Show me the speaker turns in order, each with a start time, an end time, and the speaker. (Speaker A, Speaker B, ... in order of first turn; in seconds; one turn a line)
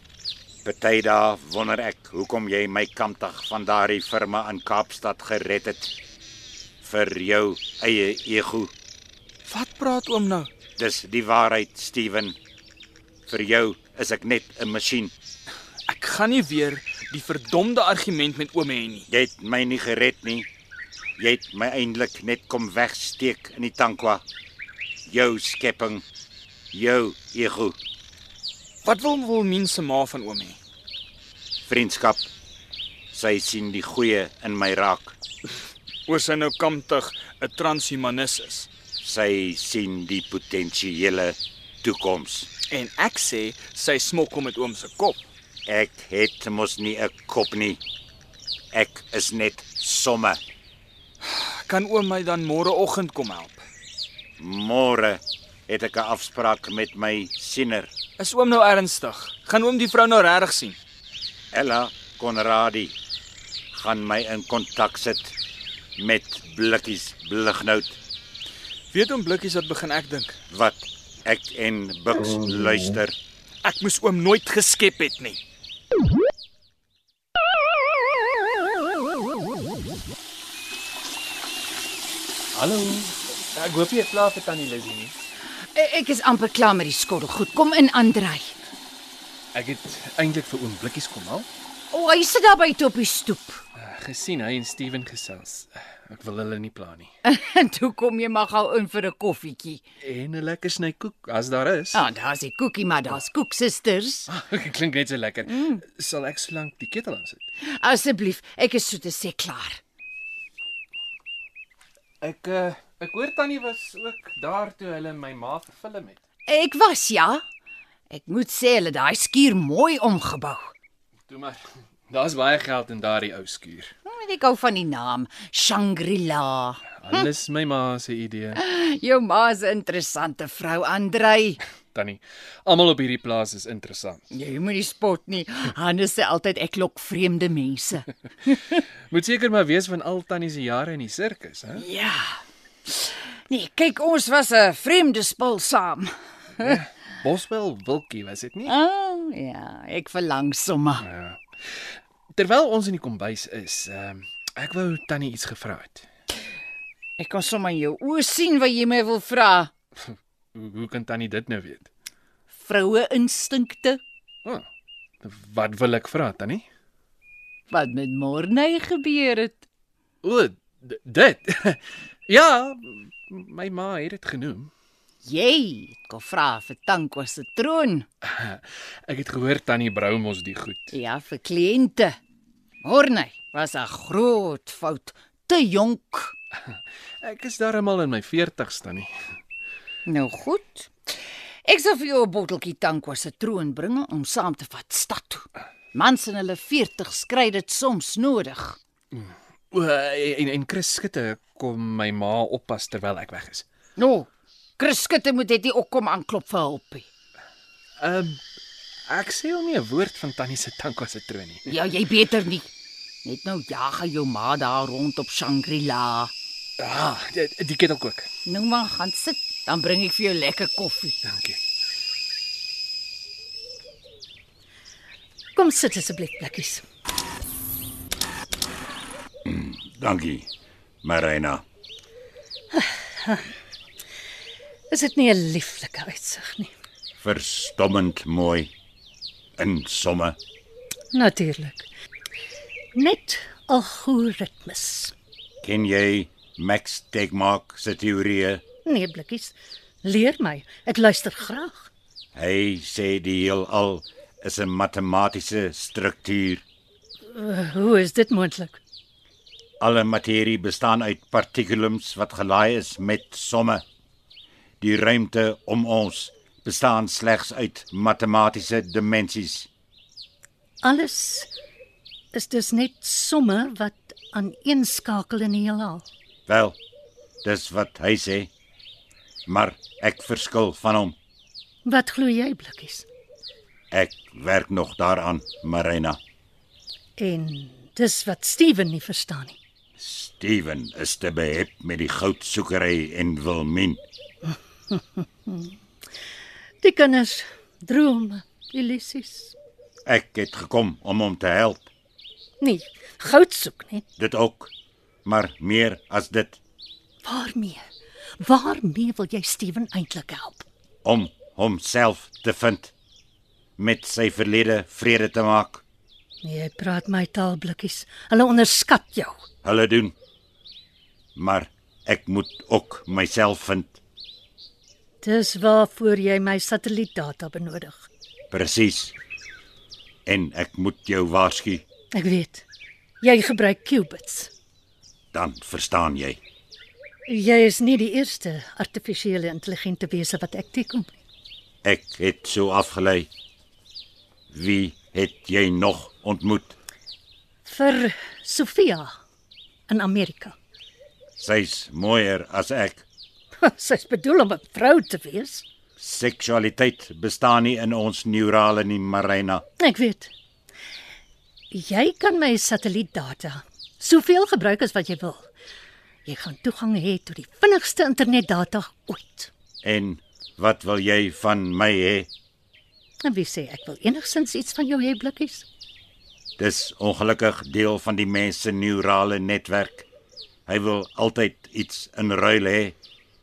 Speaker A: 0.6-5.9
Speaker A: 6.8-8.7
Speaker B: 9.5-10.5
Speaker A: 10.8-12.4
Speaker A: 13.3-15.1
Speaker B: 15.9-19.1
Speaker A: 19.1-20.5
Speaker A: 21.2-24.2
Speaker A: 25.1-26.0
Speaker A: 26.7-27.8
Speaker B: 28.9-30.6
Speaker A: 31.7-32.3
Speaker A: 33.1-35.2
Speaker B: 36.1-38.7
Speaker A: 39.0-42.5
Speaker B: 42.7-45.2
Speaker A: 45.7-47.8
Speaker A: 48.7-50.4
Speaker B: 51.7-53.6
Speaker A: 54.4-57.9
Speaker B: 58.2-60.8
Speaker A: 61.5-63.0
Speaker A: 63.7-65.3
Speaker A: 66.0-68.0
Speaker B: 68.9-70.4
Speaker A: 70.5-73.2
Speaker B: 73.6-75.4
Speaker C: 82.5-85.1
Speaker D: 85.7-88.6
Speaker C: 89.5-91.5
Speaker D: 91.9-93.6
Speaker C: 93.8-97.1
Speaker D: 97.2-99.8
Speaker C: 100.0-102.0
Speaker D: 101.9-104.3
Speaker C: 104.3-107.4
Speaker D: 105.5-105.8
Speaker D: 107.6-109.8
Speaker C: 112.2-116.2
Speaker D: 116.5-117.4
Speaker D: 118.1-120.7
Speaker C: 121.3-123.9
Speaker D: 124.1-126.8
Speaker C: 127.0-128.6
Speaker D: 128.6-131.6
Speaker C: 131.9-134.3
Speaker D: 134.3-138.1
Speaker C: 138.5-141.8
Speaker D: 141.8-142.3
Speaker D: 142.9-146.1
Speaker C: 146.6-148.7
Speaker D: 148.7-151.1
Speaker C: 151.0-156.1
Speaker D: 157.2-159.7
Speaker C: 160.0-161.9
Speaker D: 162.5-164.0
Speaker C: 165.2-166.7
Speaker D: 167.7-169.6
Speaker C: 170.2-174.7
Speaker D: 175.2-178.1
Speaker C: 178.2-180.9
Speaker D: 180.9-182.2
Speaker D: 182.8-186.3
Speaker C: 187.2-189.1
Speaker D: 190.1-198.8
Speaker C: 199.1-203.7
Speaker D: 204.0-207.1
Speaker C: 208.0-208.4
Speaker C: 209.1-211.7
Speaker D: 211.7-212.7
Speaker D: 213.2-216.3
Speaker C: 216.8-218.3
Speaker D: 218.4-221.2
Speaker C: 221.2-221.6
Speaker E: 225.6-226.8
Speaker A: 229.4-230.5
Speaker A: 231.0-231.6
Speaker E: 232.7-233.5
Speaker E: 234.9-236.7
Speaker A: 237.2-238.7
Speaker A: 239.6-240.4
Speaker E: 241.1-241.9
Speaker E: 242.9-245.1
Speaker A: 245.6-248.6
Speaker E: 248.8-251.9
Speaker A: 252.3-256.6
Speaker E: 257.3-258.8
Speaker A: 259.8-263.8
Speaker A: 264.8-269.7
Speaker E: 270.8-271.5
Speaker E: 272.3-276.1
Speaker A: 276.5-276.8
Speaker A: 277.4-278.5
Speaker A: 279.5-281.1
Speaker E: 281.9-283.1
Speaker A: 283.9-286.2
Speaker E: 287.2-289.6
Speaker A: 290.0-294.0
Speaker E: 295.2-295.7
Speaker E: 296.8-299.6
Speaker A: 300.1-301.9
Speaker E: 302.6-304.1
Speaker A: 304.2-304.7
Speaker A: 305.2-306.6
Speaker E: 307.2-307.9
Speaker E: 308.4-310.7
Speaker A: 311.1-312.9
Speaker A: 313.8-315.8
Speaker E: 316.4-319.4
Speaker A: 319.6-320.1
Speaker A: 321.4-324.0
Speaker E: 325.2-328.1
Speaker A: 328.5-329.1
Speaker A: 330.3-331.8
Speaker E: 332.1-332.6
Speaker E: 333.2-334.5
Speaker A: 335.3-336.4
Speaker E: 337.3-341.1
Speaker A: 341.8-343.3
Speaker A: 344.5-346.8
Speaker E: 347.6-349.2
Speaker E: 349.9-350.6
Speaker A: 351.4-353.0
Speaker E: 353.6-355.6
Speaker A: 356.0-359.6
Speaker E: 359.8-360.3
Speaker E: 361.7-365.5
Speaker E: 366.2-369.5
Speaker A: 369.8-372.3
Speaker E: 373.2-375.7
Speaker A: 376.6-380.1
Speaker A: 380.7-383.0